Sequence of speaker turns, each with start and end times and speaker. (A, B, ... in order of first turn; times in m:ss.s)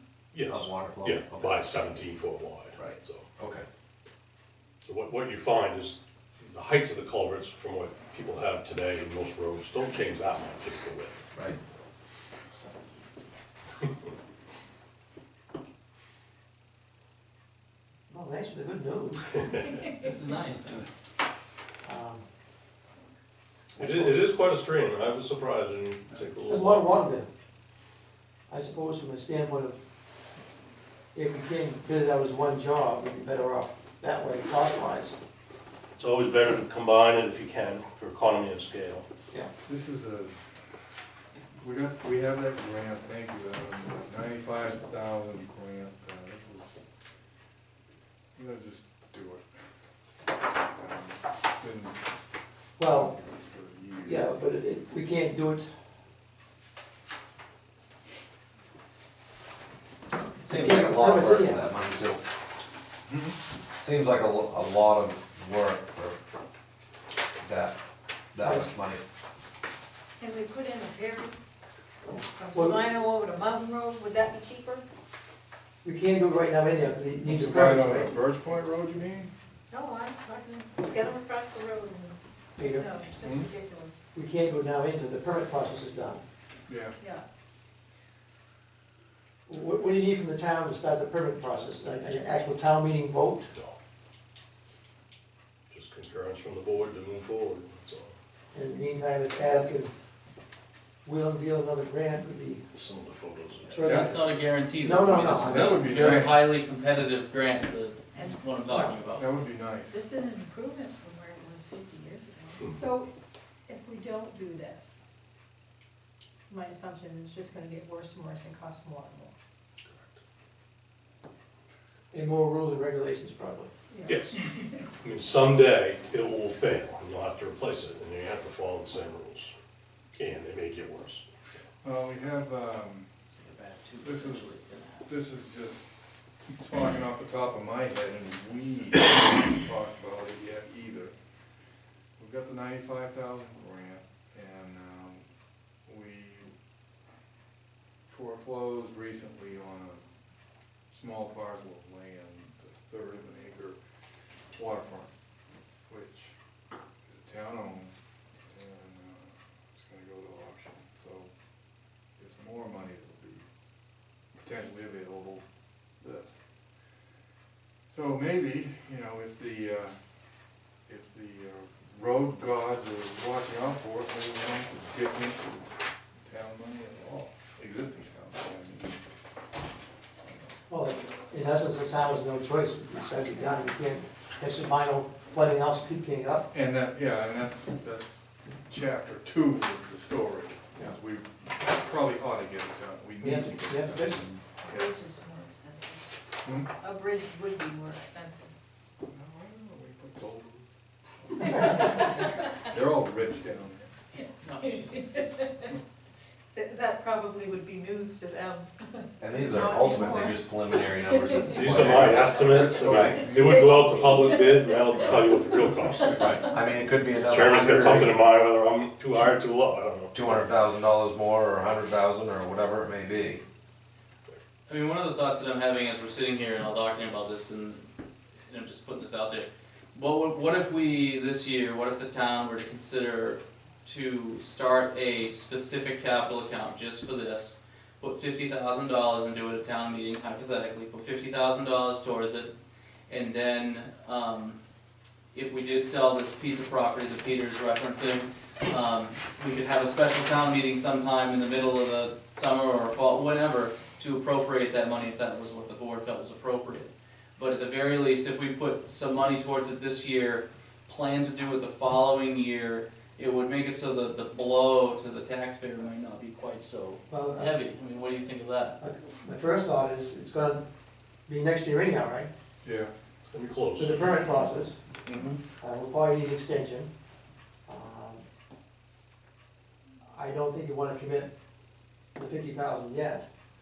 0:00.3-0:03.3 A
0:00.4-0:01.7 B
0:02.8-0:03.7 B
0:04.8-0:11.2 A
0:12.5-0:13.0 C
0:18.1-0:19.7 D
0:20.0-0:20.8 C
0:21.8-0:22.2 D
0:23.8-0:24.2 D
0:23.8-0:26.9 A
0:26.5-0:27.3 D
0:28.5-0:29.8 D
0:31.1-0:35.2 D
0:36.0-0:39.1 A
0:39.7-0:40.4 E
0:41.6-0:46.8 E
0:48.4-0:49.5 E
0:50.6-0:52.0 E
0:52.8-0:53.1 D
0:52.8-0:54.5 E
0:54.0-0:55.7 D
1:00.4-1:02.2 B
1:00.5-1:01.6 D
1:03.1-1:03.4 E
1:03.8-1:06.2 B
1:07.4-1:07.8 B
1:08.3-1:09.0 B
1:10.2-1:11.4 F
1:12.0-1:12.8 D
1:12.4-1:14.9 F
1:15.8-1:18.1 D
1:17.2-1:19.3 E
1:19.7-1:22.2 F
1:22.6-1:23.0 D
1:22.8-1:24.0 F
1:23.2-1:23.5 E
1:24.1-1:26.2 D
1:26.7-1:27.0 E
1:27.0-1:27.2 G
1:29.5-1:33.5 D
1:35.7-1:38.2 A
1:38.5-1:39.9 D
1:41.0-1:42.7 D
1:42.7-1:43.8 A
1:43.7-1:45.8 D
1:43.8-1:49.3 C
1:43.8-1:44.1 E
1:45.2-1:46.5 E
1:48.7-1:49.0 D
1:49.2-1:50.0 E
1:49.9-1:52.6 F
1:52.7-1:53.1 G
1:53.7-1:55.0 G
1:56.5-1:59.3 G
1:59.8-2:00.2 A
2:02.1-2:03.7 D
2:03.9-2:04.7 G
2:04.0-2:04.4 A
2:05.0-2:09.6 A
2:10.2-2:11.3 A
2:11.8-2:13.1 E
2:13.3-2:15.1 C
2:14.0-2:14.5 E
2:15.0-2:15.9 E
2:16.4-2:21.1 E
2:22.2-2:25.2 E
2:25.8-2:26.5 E
2:28.0-2:30.0 E
2:30.9-2:33.8 E
2:34.5-2:35.1 E
2:35.9-2:36.4 E
2:37.1-2:37.9 E
2:38.5-2:41.3 E
2:42.2-2:43.4 E
2:44.4-2:45.4 E
2:46.0-2:46.4 E
2:47.9-2:50.0 E
2:50.9-2:55.6 E
2:56.2-2:59.0 E
3:00.7-3:06.5 D
3:06.5-3:14.9 E
3:13.2-3:14.2 D
3:14.7-3:16.0 F
3:16.4-3:16.7 E
3:16.8-3:18.5 F
3:19.1-3:20.7 E
3:21.2-3:22.1 E
3:22.6-3:23.9 E
3:24.3-3:25.3 C
3:24.6-3:25.6 F
3:26.5-3:31.5 F
3:29.2-3:33.3 B
3:31.5-3:36.5 A
3:32.5-3:33.6 E
3:33.4-3:34.7 F
3:36.2-3:38.2 B
3:37.3-3:40.4 A
3:40.1-3:43.4 B
3:44.7-3:47.9 C
3:48.5-4:02.5 C
4:03.1-4:04.6 C
4:05.3-4:28.8 C
4:27.1-4:27.5 D
4:28.8-4:30.6 D
4:31.3-4:32.3 D
4:32.6-4:32.9 E
4:33.3-4:34.2 A
4:33.8-4:34.8 D
4:35.1-4:35.3 E
4:35.1-4:35.4 C
4:35.6-4:36.9 D
4:37.7-4:38.2 D
4:40.0-4:41.3 D
4:42.2-4:43.2 D